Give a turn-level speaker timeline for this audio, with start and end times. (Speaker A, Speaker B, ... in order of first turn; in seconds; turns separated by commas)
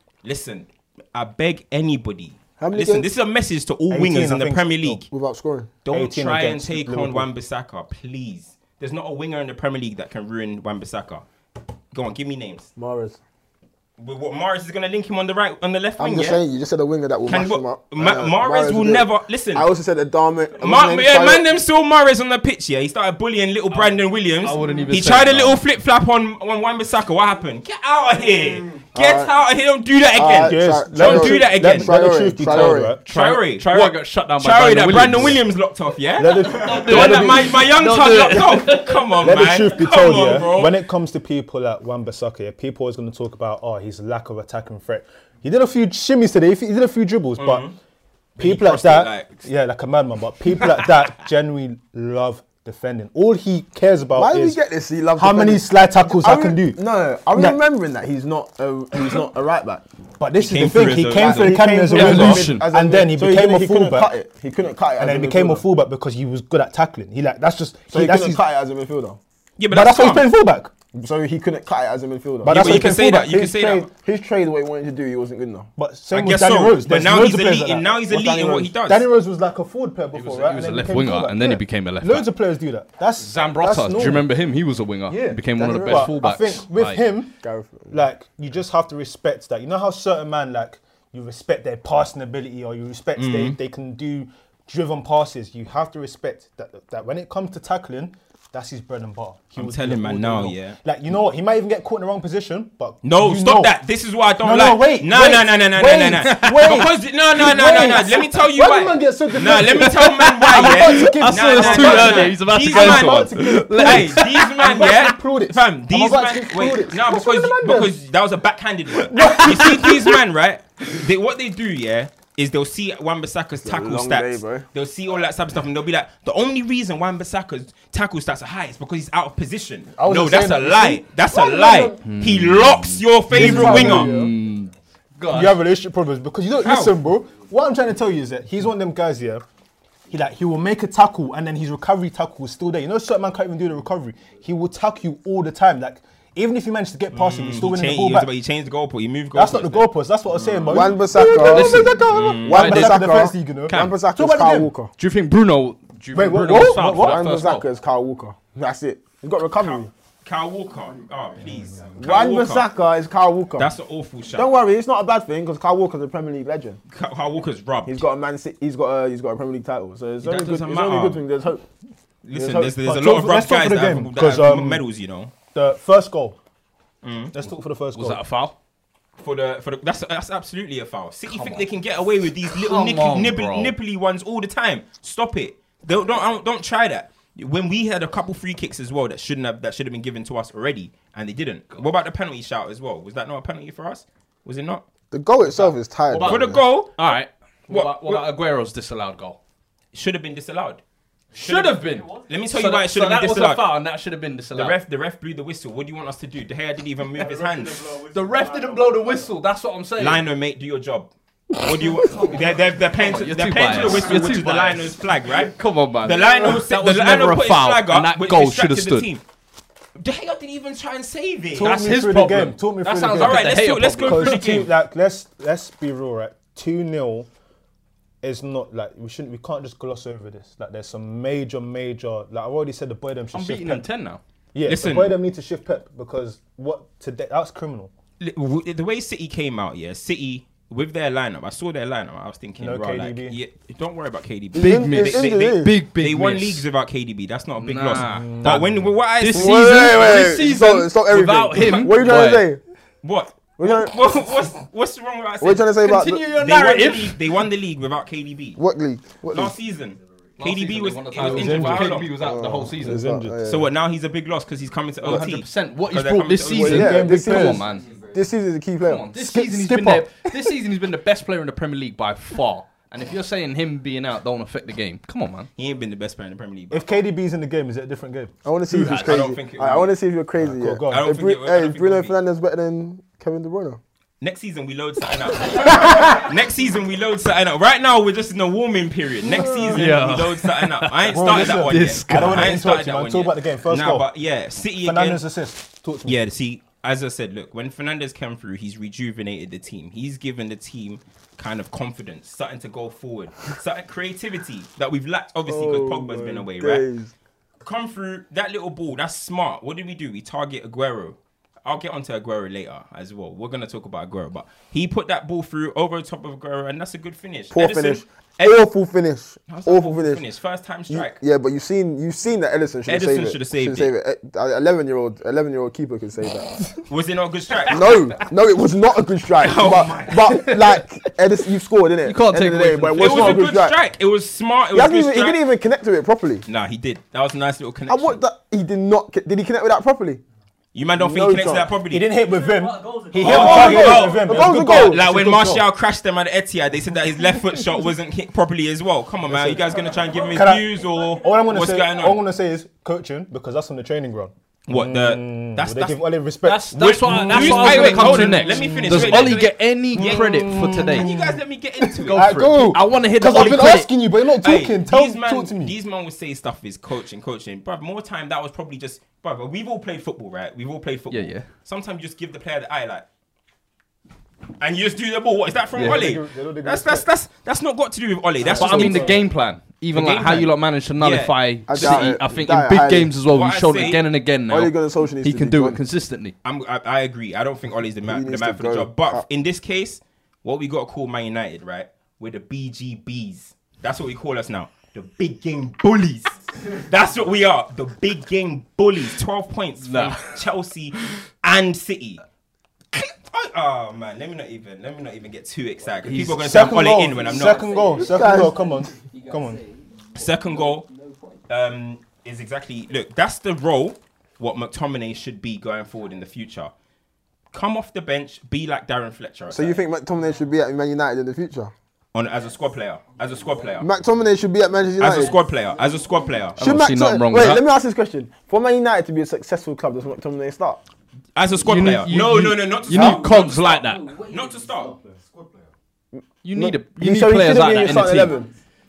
Speaker A: 0.2-5.1, Speaker B: 2.6-3.0, Speaker C: 3.9-5.0, Speaker B: 5.1-5.7, Speaker A: 5.8-11.2, Speaker C: 5.9-7.3, Speaker A: 11.9-12.7, Speaker B: 12.8-13.2, Speaker A: 14.0-16.4, Speaker B: 16.0-21.4, Speaker A: 17.2-19.7, Speaker A: 20.6-40.7, Speaker D: 23.7-25.6, Speaker B: 28.9-29.3, Speaker B: 30.1-32.9, Speaker C: 30.3-33.0, Speaker D: 32.5-35.5, Speaker C: 35.1-35.4, Speaker C: 36.2-37.6, Speaker D: 36.4-39.1, Speaker C: 39.2-47.6, Speaker A: 47.4-47.7, Speaker A: 48.4-49.4, Speaker C: 48.4-54.6, Speaker B: 54.1-59.8, Speaker C: 55.1-56.8, Speaker C: 57.3-57.6, Speaker C: 60.2-64.1, Speaker A: 60.4-62.2, Speaker B: 61.0-65.6, Speaker D: 61.9-62.7, Speaker C: 65.0-68.4, Speaker B: 67.9-69.2, Speaker A: 69.6-70.3, Speaker C: 69.7-70.7, Speaker B: 70.9-75.7, Speaker C: 72.4-73.3, Speaker A: 72.5-73.9, Speaker C: 75.8-77.9, Speaker A: 76.1-79.0, Speaker B: 78.1-78.7, Speaker C: 78.9-84.3, Speaker D: 80.1-82.3, Speaker D: 83.2-87.0, Speaker C: 85.1-87.4, Speaker B: 85.5-86.2, Speaker B: 87.4-88.0, Speaker C: 87.9-103.7, Speaker A: 93.2-93.5, Speaker A: 99.5-100.8, Speaker A: 103.0-134.1, Speaker C: 104.4-118.0, Speaker D: 106.4-106.8, Speaker D: 110.3-114.9, Speaker C: 119.1-120.1, Speaker D: 119.2-120.2, Speaker B: 123.6-124.7, Speaker C: 129.9-131.1, Speaker B: 131.3-132.0, Speaker D: 132.0-135.6, Speaker C: 133.3-134.3, Speaker C: 135.3-139.4, Speaker A: 136.6-136.9, Speaker C: 140.1-148.3, Speaker A: 147.1-151.0, Speaker C: 149.3-154.7, Speaker B: 150.7-154.9, Speaker D: 151.2-153.9, Speaker A: 152.1-152.8, Speaker D: 155.0-157.7, Speaker C: 156.1-157.2, Speaker B: 156.8-159.9, Speaker A: 159.6-162.7, Speaker B: 162.0-163.7, Speaker A: 163.6-164.5, Speaker B: 164.3-166.8, Speaker A: 166.9-168.0, Speaker B: 167.8-171.7, Speaker A: 170.2-171.2, Speaker A: 172.2-175.3, Speaker B: 172.3-172.7, Speaker C: 172.8-174.8, Speaker C: 175.5-176.4, Speaker A: 177.0-177.3, Speaker C: 177.3-178.2, Speaker D: 177.9-178.6, Speaker A: 179.2-194.8, Speaker D: 181.3-181.7, Speaker D: 182.4-183.7, Speaker B: 195.1-196.6, Speaker D: 195.4-199.4, Speaker A: 196.2-198.2, Speaker A: 199.9-200.8, Speaker D: 201.3-204.8, Speaker A: 201.4-203.6, Speaker A: 204.5-208.0, Speaker D: 208.0-210.2, Speaker A: 210.0-219.2, Speaker D: 212.9-219.1, Speaker A: 220.0-221.9, Speaker C: 221.5-227.3, Speaker D: 221.6-224.5, Speaker A: 223.2-224.7, Speaker C: 228.2-233.8, Speaker D: 233.3-234.2, Speaker C: 234.5-237.9, Speaker A: 234.7-235.2, Speaker A: 238.2-249.5, Speaker C: 242.6-243.4, Speaker B: 244.5-245.7, Speaker D: 244.5-246.6, Speaker D: 247.6-248.6, Speaker C: 248.0-248.9, Speaker D: 249.2-252.4, Speaker B: 249.3-252.6, Speaker A: 253.0-255.7, Speaker B: 253.6-254.0, Speaker B: 255.4-256.2, Speaker D: 255.8-257.2, Speaker A: 256.3-258.6, Speaker B: 258.6-259.5, Speaker A: 259.3-262.1, Speaker D: 260.4-263.1, Speaker C: 261.2-261.9, Speaker B: 262.1-263.7, Speaker C: 262.8-263.4, Speaker A: 263.4-266.8, Speaker D: 265.0-267.9, Speaker C: 266.5-267.6, Speaker B: 266.6-269.1, Speaker D: 268.8-275.5, Speaker C: 269.1-270.3, Speaker A: 275.6-276.9, Speaker C: 276.7-278.3, Speaker B: 278.4-283.8, Speaker D: 278.7-279.2, Speaker A: 279.0-279.9, Speaker C: 280.4-281.1, Speaker A: 280.9-282.2, Speaker A: 284.2-295.2, Speaker B: 289.3-289.9, Speaker D: 289.7-292.6, Speaker C: 291.1-294.1, Speaker C: 294.8-296.2, Speaker A: 296.0-306.8, Speaker B: 305.5-307.1, Speaker A: 307.6-318.6, Speaker B: 317.5-320.2, Speaker A: 319.5-321.2, Speaker B: 320.9-326.8, Speaker A: 322.9-323.9, Speaker A: 326.9-328.1, Speaker B: 327.7-333.8, Speaker A: 329.4-330.5, Speaker D: 330.1-330.8, Speaker D: 332.0-333.5, Speaker A: 333.0-335.4, Speaker B: 334.7-336.4, Speaker A: 336.4-338.2, Speaker B: 337.9-340.2, Speaker A: 340.7-342.1, Speaker B: 341.0-341.7, Speaker C: 341.9-345.6, Speaker A: 343.1-352.2, Speaker B: 343.2-345.0, Speaker C: 349.3-349.6, Speaker C: 350.3-365.7, Speaker A: 354.7-356.0, Speaker D: 356.4-361.1, Speaker A: 356.7-362.5, Speaker D: 361.9-363.9, Speaker A: 363.3-363.6, Speaker A: 364.4-373.0, Speaker D: 371.1-371.5, Speaker A: 374.6-379.1, Speaker C: 375.7-377.1, Speaker D: 375.8-376.0, Speaker C: 378.4-379.3, Speaker D: 378.4-386.3, Speaker A: 379.9-382.1, Speaker B: 381.7-383.1, Speaker A: 383.3-384.0, Speaker B: 384.5-385.8, Speaker A: 386.4-402.2, Speaker B: 388.1-389.2, Speaker D: 399.8-400.4, Speaker A: 402.9-407.8, Speaker D: 406.0-406.4, Speaker C: 406.3-409.6, Speaker B: 408.0-408.6, Speaker A: 410.1-410.9, Speaker A: 411.5-416.7, Speaker A: 417.5-419.8, Speaker B: 419.5-421.7, Speaker A: 422.1-423.9, Speaker B: 423.8-425.4, Speaker A: 425.0-426.6, Speaker D: 426.6-427.6, Speaker B: 426.6-430.8, Speaker A: 431.4-435.0, Speaker D: 431.6-434.2, Speaker B: 436.1-438.5, Speaker D: 436.4-438.3